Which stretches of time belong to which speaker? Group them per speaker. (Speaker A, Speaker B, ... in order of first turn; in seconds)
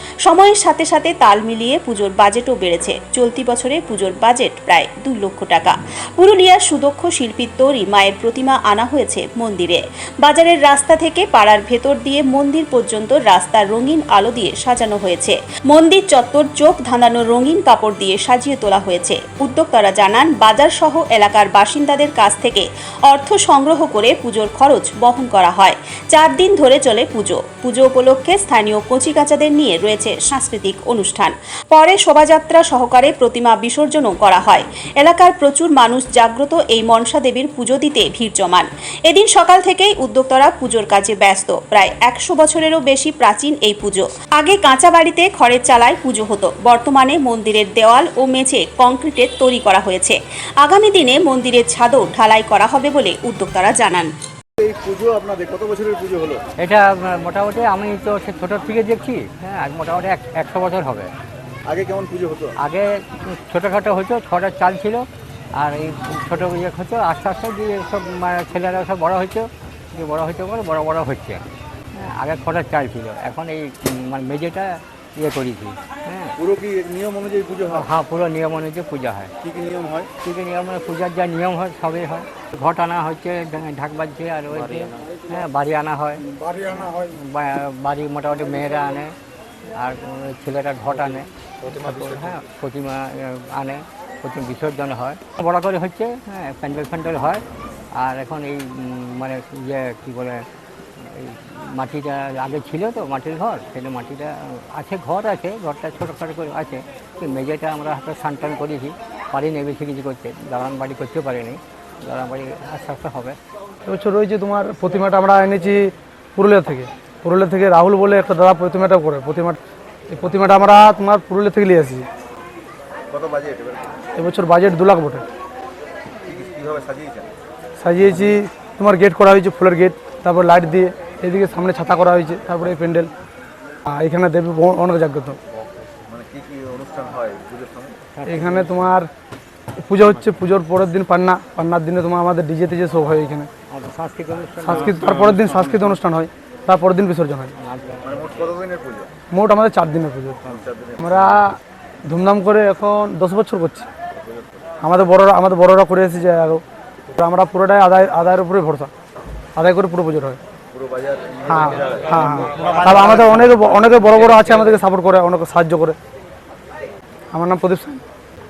Speaker A: 0.3-54.1
Speaker B: 54.6-56.4, 61.7-62.5, 76.4-77.9, 79.4-80.1, 123.1-124.0, 126.2-127.3, 136.1-138.0, 148.0-149.1, 150.4-151.4, 154.2-154.6, 160.7-164.6
Speaker C: 56.6-61.1, 62.6-71.4, 72.0-76.4, 77.7-79.3, 80.2-86.2, 86.8-89.2, 89.8-97.4, 98.0-100.5, 101.0-113.4, 138.1-138.9, 143.7-145.8, 147.6-148.5, 162.2-163.5
Speaker D: 86.3-87.0, 91.7-92.3, 113.8-122.1, 124.1-125.2, 127.8-133.1, 133.9-135.4, 138.3-139.1, 139.8-143.5, 144.6-147.6, 149.3-150.4, 151.0-153.9, 154.8-158.9, 159.6-160.4, 161.5-166.0, 167.3-168.0